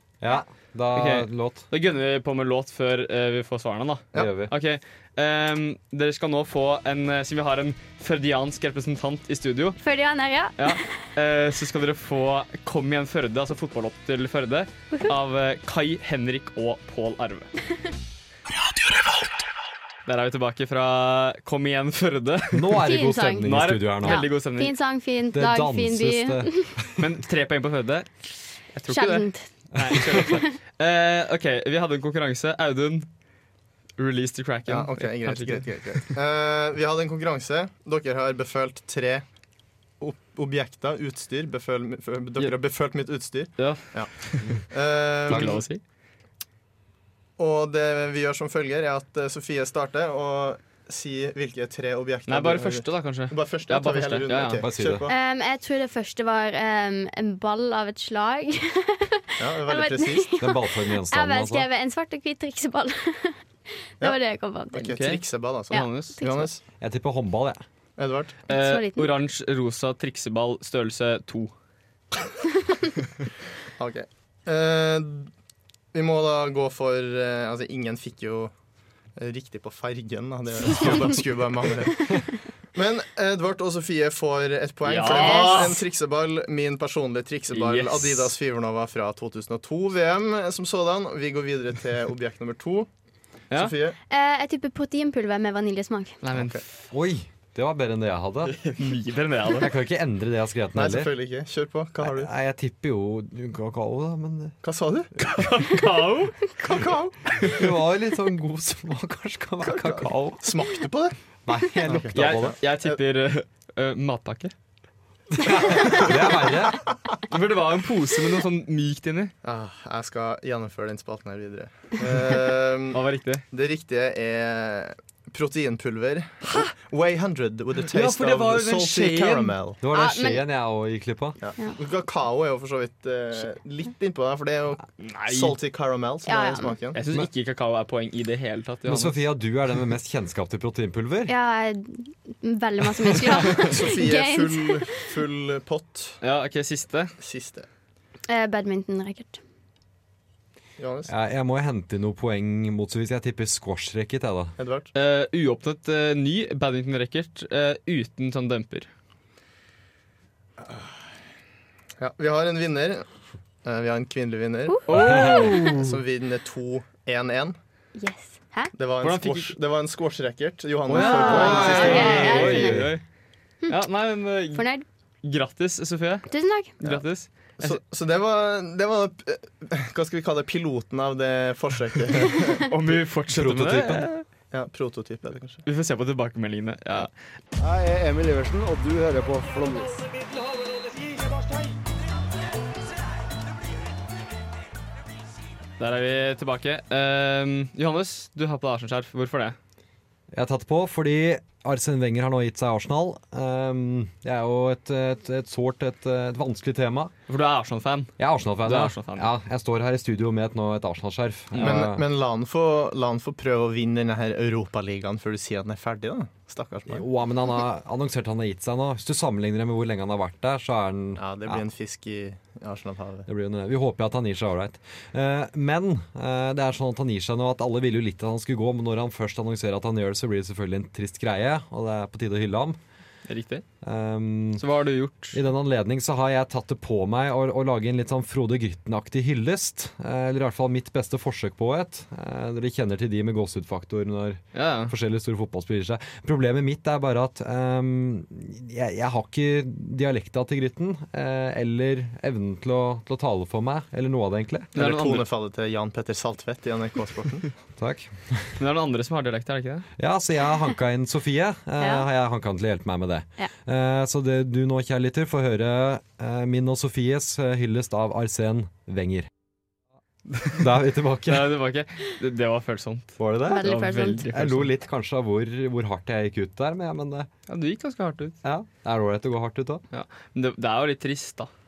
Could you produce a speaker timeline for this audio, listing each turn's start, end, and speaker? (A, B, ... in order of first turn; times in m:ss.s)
0:00.2-0:01.6 A
0:00.9-0:09.8 B
0:04.1-0:04.5 A
0:09.8-0:10.9 C
0:10.6-0:17.5 B
0:20.0-0:22.6 B
0:22.5-0:24.3 A
0:22.8-0:23.5 C
0:23.4-0:24.7 B
0:24.0-0:26.7 C
0:25.3-0:27.0 A
0:27.0-0:28.1 B
0:28.7-0:33.1 B
0:28.9-0:29.5 C
0:30.1-0:30.5 C
0:34.0-0:36.1 B
0:34.7-0:39.2 D
0:40.0-0:45.6 D
0:43.6-0:44.6 B
0:45.3-0:45.8 B
0:45.3-0:45.6 A
0:47.4-0:55.1 D
0:52.3-0:54.6 B
0:54.6-0:55.1 A
0:55.1-1:03.4 C
0:59.4-1:00.3 D
1:00.4-1:01.6 A
1:04.0-1:04.9 C
1:04.7-1:06.6 D
1:04.8-1:06.2 B
1:05.7-1:06.5 C
1:06.8-1:07.6 A
1:08.0-1:08.4 D
1:08.5-1:11.5 B
1:08.5-1:09.1 C
1:13.8-1:15.3 D
1:15.9-1:18.5 D
1:19.2-1:32.9 D
1:24.8-1:25.7 B
1:25.1-1:25.8 C
1:27.5-1:28.3 B
1:33.5-1:34.0 D
1:34.1-1:36.2 C
1:36.2-1:36.6 B
1:36.3-1:36.6 D
1:36.9-1:38.6 A
1:38.5-1:39.7 B
1:39.6-1:41.1 A
1:40.7-1:42.3 D
1:42.0-1:44.6 A
1:44.6-1:45.1 D
1:45.2-1:46.5 B
1:46.6-1:47.2 D
1:47.5-1:50.6 A
1:49.6-1:51.2 D
1:51.4-1:52.6 A
1:51.8-1:53.0 D
1:52.1-1:54.5 B
1:55.4-1:56.8 A
1:57.3-1:59.3 B
1:59.4-2:09.8 D
2:02.9-2:03.4 B
2:07.9-2:09.5 B
2:09.8-2:11.4 A
2:09.9-2:10.4 C
2:11.4-2:17.0 D
2:15.0-2:15.6 B
2:16.3-2:16.8 C
2:16.9-2:19.2 B
2:18.8-2:21.3 A
2:21.3-2:24.9 C
2:23.5-2:26.2 D
2:26.2-2:27.1 B
2:27.2-2:27.7 D
2:28.3-2:29.4 C
2:30.8-2:31.1 D
2:31.1-2:34.6 A
2:34.6-2:34.9 D
2:34.9-2:38.9 B
2:40.6-2:40.9 D
2:42.0-2:43.0 D
2:43.6-2:47.6 D
2:44.7-2:45.3 C
2:44.9-2:46.0 B
2:47.9-2:48.7 C
2:48.8-2:52.6 D
2:49.0-2:49.6 B
2:50.9-2:53.0 B
2:50.9-2:52.8 C
2:51.2-2:53.0 A
2:53.7-2:54.6 B
2:54.5-2:54.8 C
2:55.2-2:56.2 B
2:56.3-2:56.7 C
2:56.8-2:57.8 B
2:57.6-3:02.6 D
3:02.6-3:04.2 B
3:03.3-3:04.1 A
3:04.5-3:05.6 D
3:05.6-3:07.1 B
3:07.6-3:10.1 E
3:15.8-3:19.6 B
3:20.3-3:27.1 A
3:27.3-3:29.3 B
3:28.2-3:32.0 A
3:31.5-3:31.8 B
3:31.6-3:37.0 D
3:36.9-3:41.6 A
3:41.2-3:43.3 D
3:43.3-3:52.8 A
3:53.3-3:53.6 B
3:53.8-3:54.6 A
3:54.6-3:55.4 B
3:55.3-4:14.7 A
4:04.5-4:04.9 B
4:14.7-4:15.2 B
4:14.8-4:17.5 D
4:17.8-4:18.6 A
4:18.6-4:19.9 B
4:20.0-4:29.3 A
4:21.8-4:22.0 C
4:30.3-4:30.6 B
4:30.5-4:31.5 A
4:31.2-4:34.7 B
4:33.2-4:33.7 A
4:33.4-4:34.2 C
4:34.3-4:37.3 A
4:37.5-4:38.4 B
4:38.4-4:39.8 A
4:39.9-4:41.5 B